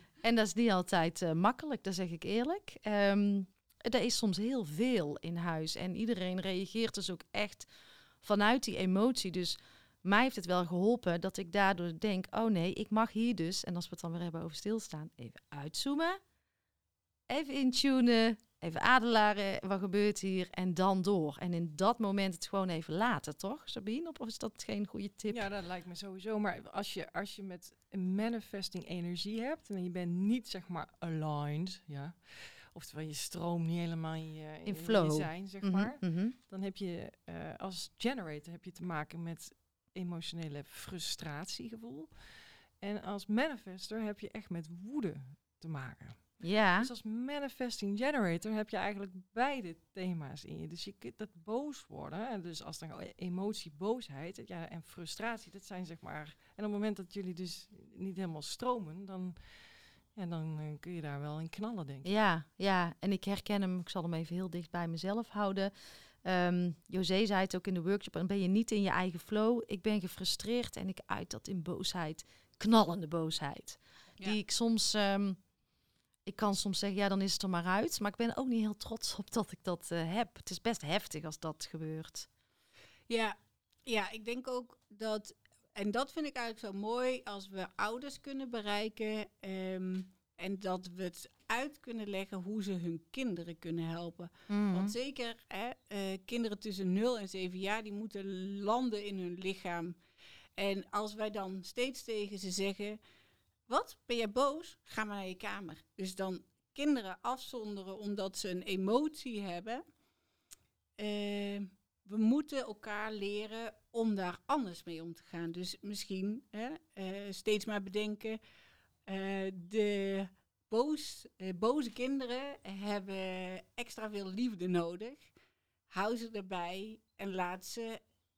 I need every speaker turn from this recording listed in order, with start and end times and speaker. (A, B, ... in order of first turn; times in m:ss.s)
0:00.2-0:07.7 A
0:08.2-0:16.2 A
0:17.3-0:25.5 A
0:25.3-0:59.6 B
0:34.6-0:36.3 A
0:46.4-0:46.9 A
1:00.1-1:02.1 B
1:02.0-1:05.7 A
1:06.2-1:15.4 A
1:16.2-1:22.3 A
1:23.1-1:40.0 C
1:34.5-1:34.9 A
1:40.6-1:43.0 C
1:43.7-1:49.8 C
1:51.0-1:58.4 C
1:59.0-2:05.3 C
2:05.9-2:08.0 C